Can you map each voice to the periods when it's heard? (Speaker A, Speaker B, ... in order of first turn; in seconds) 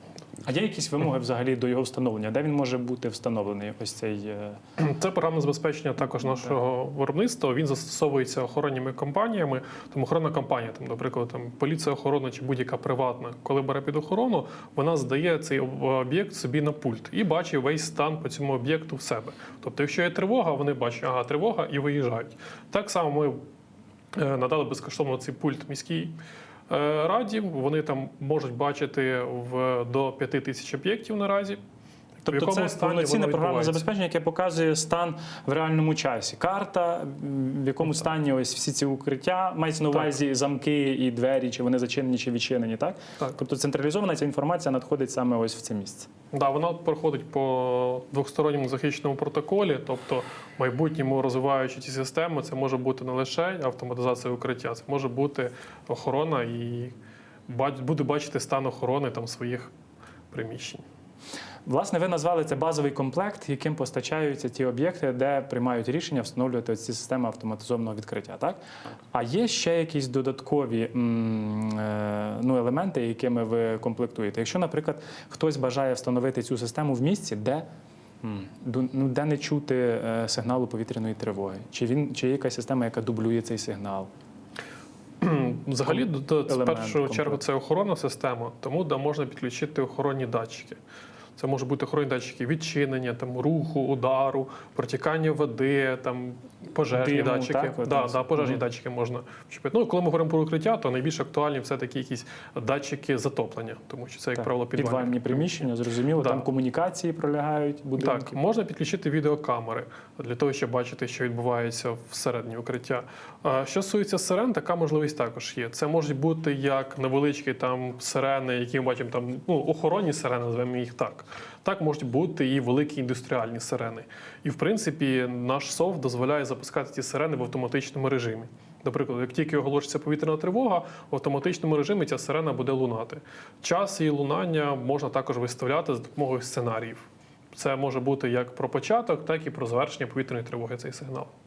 Speaker A: 0.5-4.6, 32.3-46.1, 61.7-68.6, 69.1-77.7, 78.2-84.1, 85.9-87.4, 96.9-98.6, 104.4-108.4
Speaker B: 4.8-23.4, 24.1-26.1, 26.7-31.6, 32.3-33.8, 46.3-57.0, 57.5-59.7, 60.3-60.9, 85.2-90.8, 91.4-105.6, 106.2-106.5, 108.0-141.3